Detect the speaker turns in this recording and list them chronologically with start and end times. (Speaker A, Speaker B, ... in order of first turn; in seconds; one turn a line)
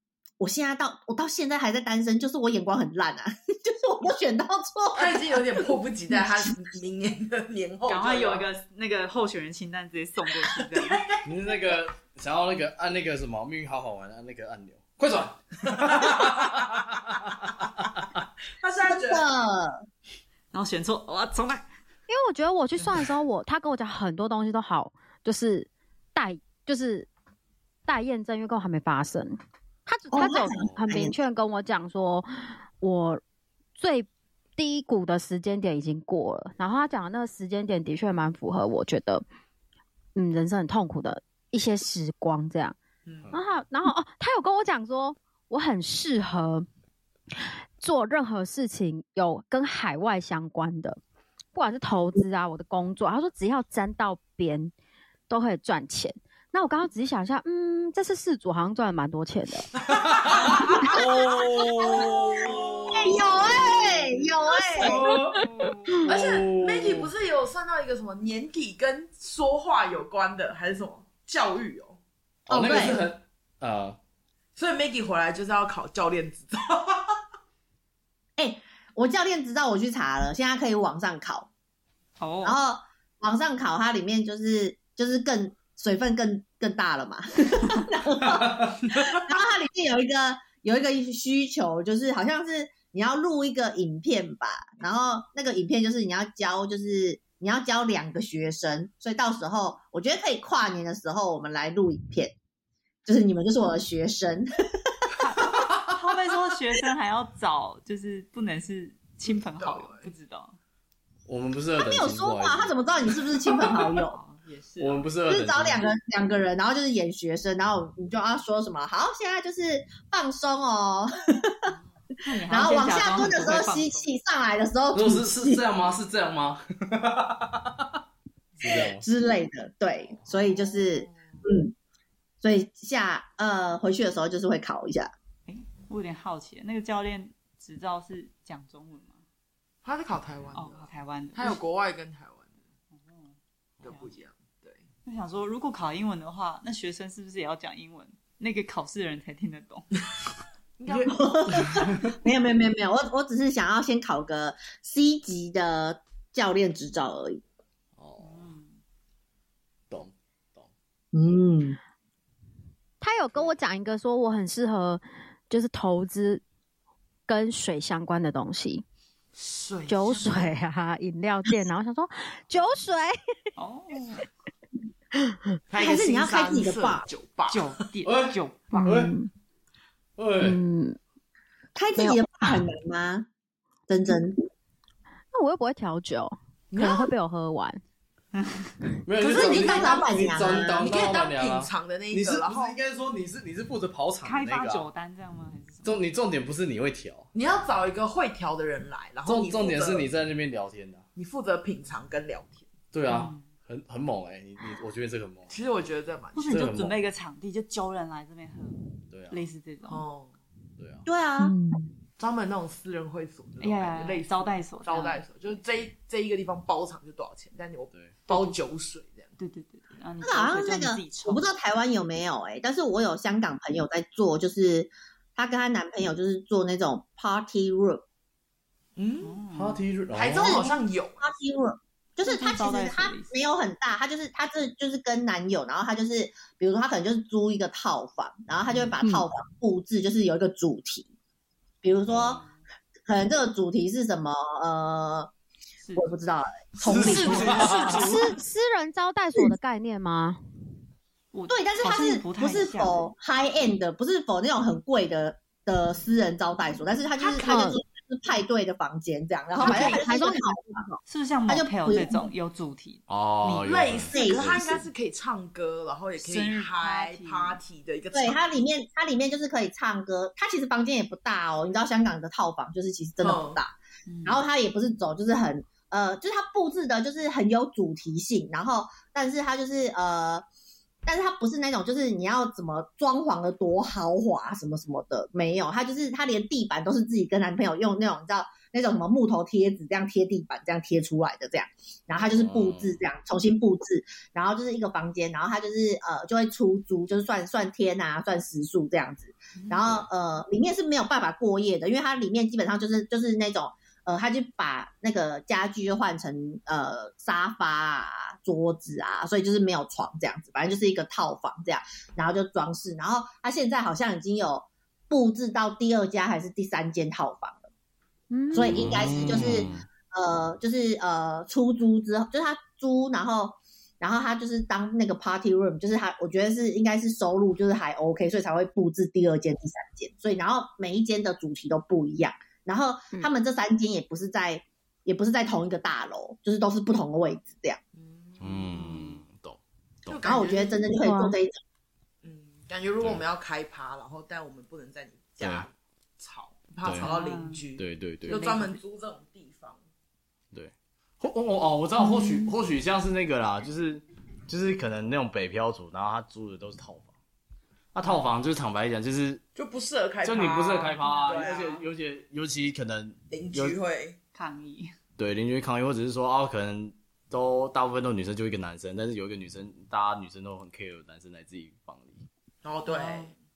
Speaker A: 0.4-5.6
Speaker B: 5.0-8.4
Speaker C: 7.9-11.0
Speaker B: 10.4-11.3
Speaker D: 11.2-17.5
Speaker B: 15.8-16.7
Speaker B: 18.6-19.3
Speaker A: 18.8-19.8
Speaker C: 20.5-21.6
Speaker E: 22.1-27.1
Speaker E: 27.9-33.2
Speaker A: 30.1-31.1
Speaker E: 33.8-39.2
Speaker E: 40.1-42.8
Speaker B: 43.0-43.3
Speaker E: 43.3-46.7
Speaker E: 47.3-51.0
Speaker E: 51.5-54.7
Speaker E: 55.3-59.7
Speaker B: 59.8-60.9
Speaker D: 59.9-64.0
Speaker A: 62.9-65.0
Speaker B: 64.7-65.1
Speaker D: 64.8-65.4
Speaker B: 65.9-72.0
Speaker D: 66.0-67.1
Speaker D: 72.5-74.0
Speaker A: 72.5-73.0
Speaker B: 74.5-77.1
Speaker A: 78.4-81.5
Speaker C: 82.2-82.6
Speaker A: 82.4-102.3
Speaker D: 88.3-88.7
Speaker A: 103.0-105.1
Speaker C: 105.2-110.6
Speaker B: 109.6-110.1
Speaker D: 111.3-112.7
Speaker A: 111.8-114.2
Speaker C: 114.0-115.0
Speaker D: 114.8-115.9
Speaker A: 115.3-121.7
Speaker C: 122.2-124.1
Speaker A: 122.5-125.6
Speaker D: 124.9-127.9
Speaker D: 128.6-129.0
Speaker A: 128.7-131.7
Speaker B: 130.5-131.4
Speaker A: 132.4-135.1
Speaker C: 135.5-139.2
Speaker B: 139.8-142.6
Speaker C: 140.5-141.6
Speaker C: 142.9-143.3
Speaker B: 143.8-144.8
Speaker C: 145.0-149.9
Speaker B: 150.8-151.8
Speaker A: 151.1-157.4
Speaker D: 158.0-158.5
Speaker C: 158.2-158.7
Speaker D: 159.9-160.7
Speaker A: 161.1-161.8
Speaker E: 163.0-166.4
Speaker E: 167.3-168.8
Speaker B: 169.3-170.5
Speaker E: 169.9-173.2
Speaker C: 173.6-174.2
Speaker B: 175.7-177.7
Speaker A: 175.8-177.1
Speaker C: 177.5-178.8
Speaker D: 178.0-179.1
Speaker E: 178.7-179.3
Speaker D: 180.2-180.6
Speaker E: 180.4-181.0
Speaker A: 181.7-183.3
Speaker E: 181.9-182.6
Speaker A: 183.9-184.4
Speaker E: 185.3-187.8
Speaker B: 186.7-187.1
Speaker D: 189.0-194.9
Speaker B: 189.2-192.8
Speaker A: 189.3-190.9
Speaker C: 194.2-195.9
Speaker D: 195.8-197.3
Speaker B: 197.3-200.1
Speaker D: 199.2-201.0
Speaker B: 201.2-202.7
Speaker D: 202.9-205.5
Speaker C: 203.1-203.4
Speaker B: 205.5-206.6
Speaker C: 206.3-208.8
Speaker D: 206.5-207.0
Speaker D: 209.1-209.4
Speaker C: 209.3-210.0
Speaker B: 209.9-210.3
Speaker D: 210.8-211.1
Speaker A: 211.1-211.5
Speaker E: 211.4-211.8
Speaker B: 212.2-219.3
Speaker C: 213.6-215.2
Speaker C: 218.3-218.6
Speaker C: 219.4-221.5
Speaker A: 220.2-228.0
Speaker B: 228.9-229.4
Speaker C: 229.2-229.8
Speaker D: 229.5-230.8
Speaker B: 230.1-231.3
Speaker A: 231.2-241.1
Speaker C: 232.2-233.3
Speaker A: 241.8-242.4
Speaker D: 242.1-242.4
Speaker A: 243.1-245.3
Speaker A: 245.9-248.1
Speaker D: 246.8-248.1
Speaker B: 246.8-248.4
Speaker E: 247.9-250.4
Speaker C: 251.3-253.1
Speaker A: 251.5-260.8
Speaker B: 257.2-257.6
Speaker E: 257.4-257.8
Speaker C: 259.6-260.0
Speaker E: 259.6-261.0
Speaker C: 261.1-263.9
Speaker A: 261.5-262.3
Speaker D: 263.1-264.6
Speaker B: 263.6-268.4
Speaker A: 264.1-264.8
Speaker C: 266.2-267.6
Speaker A: 268.1-273.7
Speaker B: 273.2-273.6
Speaker C: 274.1-274.4
Speaker A: 274.2-280.4
Speaker A: 281.0-317.6
Speaker D: 292.2-293.0
Speaker E: 318.3-319.4
Speaker A: 318.5-337.8
Speaker D: 318.6-319.9
Speaker B: 337.9-339.1
Speaker D: 338.4-340.2
Speaker B: 340.1-340.8
Speaker A: 340.2-341.6
Speaker E: 340.9-341.4
Speaker B: 342.2-349.8
Speaker D: 345.4-345.7
Speaker D: 346.8-347.1
Speaker C: 346.9-347.6
Speaker D: 347.8-348.4
Speaker C: 348.3-348.8
Speaker D: 350.5-357.1
Speaker D: 357.9-359.4
Speaker B: 359.5-361.8
Speaker D: 360.2-363.8
Speaker B: 363.3-364.2
Speaker C: 364.3-364.9
Speaker D: 365.2-372.2
Speaker B: 372.6-373.3
Speaker C: 372.9-373.3